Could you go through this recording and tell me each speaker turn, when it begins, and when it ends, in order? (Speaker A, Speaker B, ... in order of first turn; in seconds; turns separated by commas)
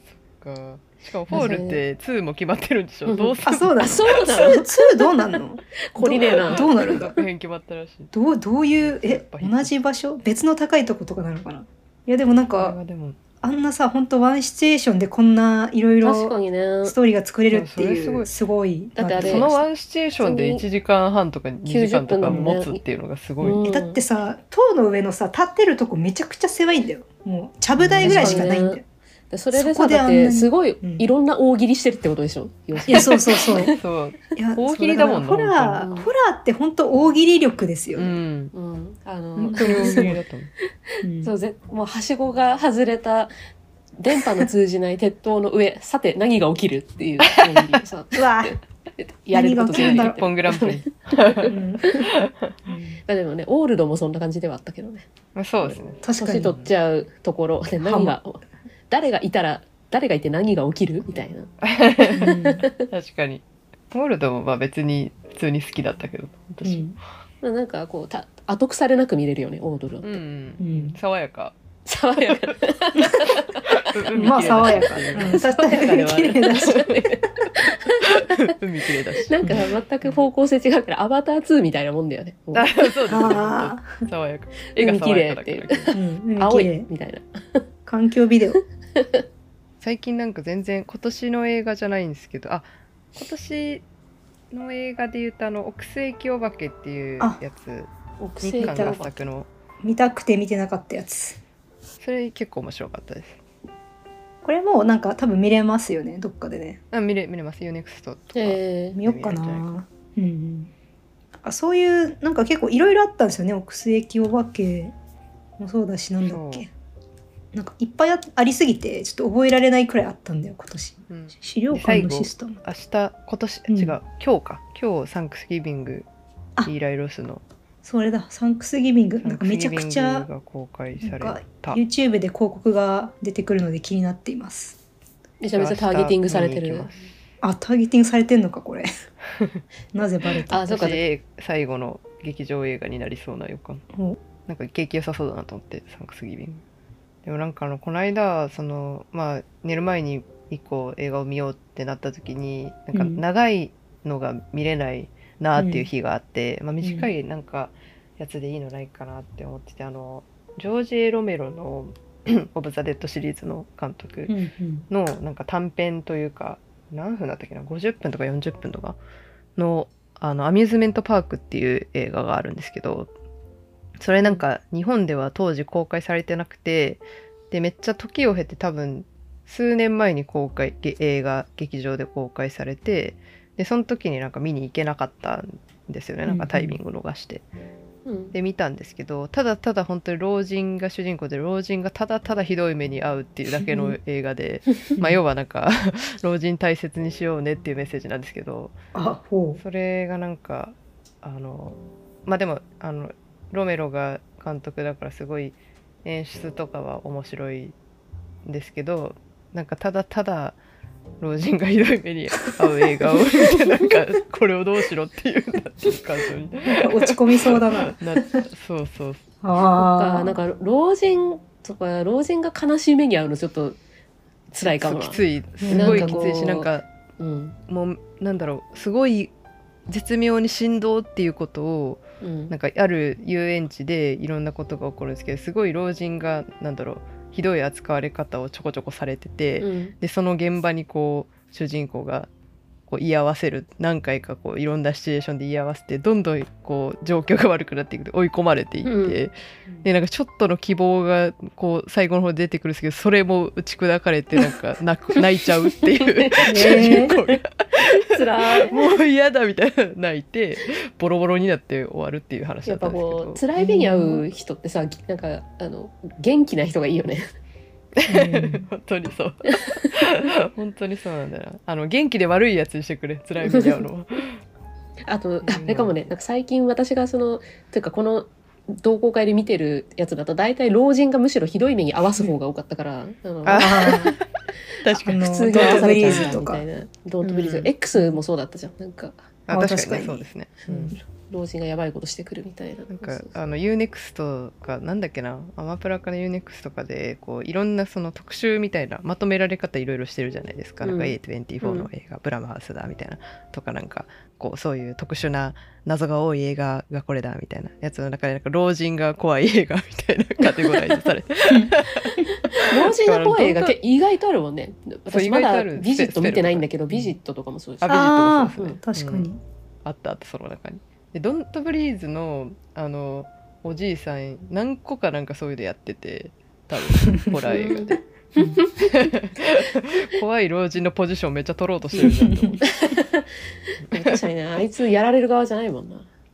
Speaker A: 0.2-4.2, Speaker B: 1.3-1.8, Speaker B: 3.0-7.0, Speaker C: 3.4-7.1, Speaker A: 6.4-8.1, Speaker C: 8.1-12.8, Speaker A: 8.8-9.7, Speaker A: 12.6-13.2, Speaker C: 13.4-19.6, Speaker B: 16.0-16.9, Speaker A: 17.5-18.3, Speaker B: 19.0-19.5, Speaker A: 19.2-23.6, Speaker B: 20.2-20.6, Speaker B: 21.6-22.8, Speaker C: 22.2-22.5, Speaker B: 23.4-24.0, Speaker C: 23.6-28.9, Speaker A: 27.8-28.6, Speaker B: 28.0-33.8, Speaker C: 29.5-31.1, Speaker A: 32.8-35.8, Speaker C: 32.9-33.8, Speaker C: 34.4-38.2, Speaker B: 35.8-36.1, Speaker A: 37.9-38.5, Speaker B: 38.5-40.1, Speaker C: 39.4-40.2, Speaker A: 39.5-40.5, Speaker B: 40.9-43.3, Speaker C: 41.0-41.3, Speaker B: 44.0-51.5, Speaker A: 47.4-47.8, Speaker C: 48.1-48.5, Speaker C: 49.3-50.2, Speaker A: 49.7-51.5, Speaker C: 51.5-52.1, Speaker A: 52.1-52.5, Speaker C: 52.7-53.0, Speaker B: 53.1-55.1, Speaker A: 55.3-56.0, Speaker C: 56.0-56.6, Speaker B: 56.1-61.5, Speaker C: 57.8-58.2, Speaker A: 61.6-62.4, Speaker B: 62.1-62.9, Speaker C: 62.1-62.7, Speaker A: 62.9-66.8, Speaker C: 66.6-67.0, Speaker B: 67.4-70.2, Speaker A: 70.0-71.6, Speaker C: 70.6-71.0, Speaker B: 71.8-78.5, Speaker A: 73.7-75.4, Speaker C: 74.1-76.9, Speaker A: 78.0-80.1, Speaker B: 79.2-82.7, Speaker A: 82.5-86.0, Speaker C: 83.1-84.0, Speaker B: 84.7-87.7, Speaker C: 85.9-86.9, Speaker C: 87.8-88.6, Speaker B: 89.0-89.2, Speaker A: 89.8-93.8, Speaker A: 94.5-97.9, Speaker B: 98.2-99.1, Speaker A: 98.4-99.5, Speaker C: 98.6-99.0, Speaker C: 99.8-101.4, Speaker A: 102.0-103.4, Speaker C: 104.4-106.8, Speaker A: 106.9-109.7, Speaker B: 108.3-109.0, Speaker C: 108.9-110.7, Speaker C: 111.4-114.9, Speaker C: 115.6-116.7, Speaker A: 116.2-116.7, Speaker C: 117.5-122.6, Speaker A: 121.1-126.1, Speaker C: 123.7-124.0, Speaker A: 126.6-127.4, Speaker C: 127.8-130.3, Speaker A: 129.2-131.8, Speaker C: 131.0-134.8, Speaker B: 135.4-136.9, Speaker A: 135.6-137.0, Speaker C: 137.4-138.9, Speaker A: 139.3-139.6, Speaker C: 139.9-140.7, Speaker B: 140.5-141.0, Speaker A: 140.6-143.8, Speaker C: 143.9-144.2, Speaker A: 144.4-146.6, Speaker A: 147.2-164.3, Speaker C: 152.9-153.2, Speaker C: 155.6-155.9, Speaker C: 156.8-157.1, Speaker C: 164.3-164.9, Speaker A: 164.9-169.0, Speaker A: 169.6-173.1, Speaker A: 174.0-187.4, Speaker C: 186.2-186.8, Speaker B: 188.1-188.3, Speaker A: 188.3-198.8, Speaker C: 193.6-193.9, Speaker C: 198.9-199.6, Speaker A: 199.6-207.7, Speaker A: 208.4-210.6, Speaker A: 211.2-219.2, Speaker C: 216.7-218.4, Speaker C: 219.4-220.3, Speaker B: 219.7-223.8, Speaker B: 224.5-227.6, Speaker A: 224.6-226.8, Speaker C: 225.6-226.2, Speaker A: 227.7-229.3, Speaker A: 229.9-242.3, Speaker B: 232.2-232.5, Speaker B: 239.6-239.9, Speaker A: 242.9-263.4, Speaker B: 248.8-249.2, Speaker B: 255.7-259.0, Speaker C: 256.5-257.2, Speaker B: 262.6-267.3, Speaker C: 263.6-264.2, Speaker A: 268.0-274.4, Speaker C: 268.1-268.7, Speaker B: 269.5-269.8, Speaker B: 273.4-273.8, Speaker B: 275.1-284.1, Speaker A: 275.4-275.9, Speaker A: 283.4-284.2, Speaker C: 283.6-284.1, Speaker A: 284.8-286.4, Speaker C: 285.0-286.6, Speaker B: 285.1-289.2, Speaker A: 287.2-287.7, Speaker A: 289.5-290.9, Speaker C: 289.5-290.9, Speaker B: 290.9-293.3, Speaker A: 292.9-313.7, Speaker B: 300.8-301.9, Speaker C: 311.5-311.7, Speaker B: 312.1-318.8, Speaker A: 315.1-317.1, Speaker A: 317.8-319.3, Speaker C: 317.9-319.4, Speaker A: 319.8-328.0, Speaker C: 327.0-327.4, Speaker B: 327.4-329.1, Speaker A: 328.8-332.7, Speaker C: 332.0-332.6, Speaker B: 332.6-336.1, Speaker A: 333.9-334.2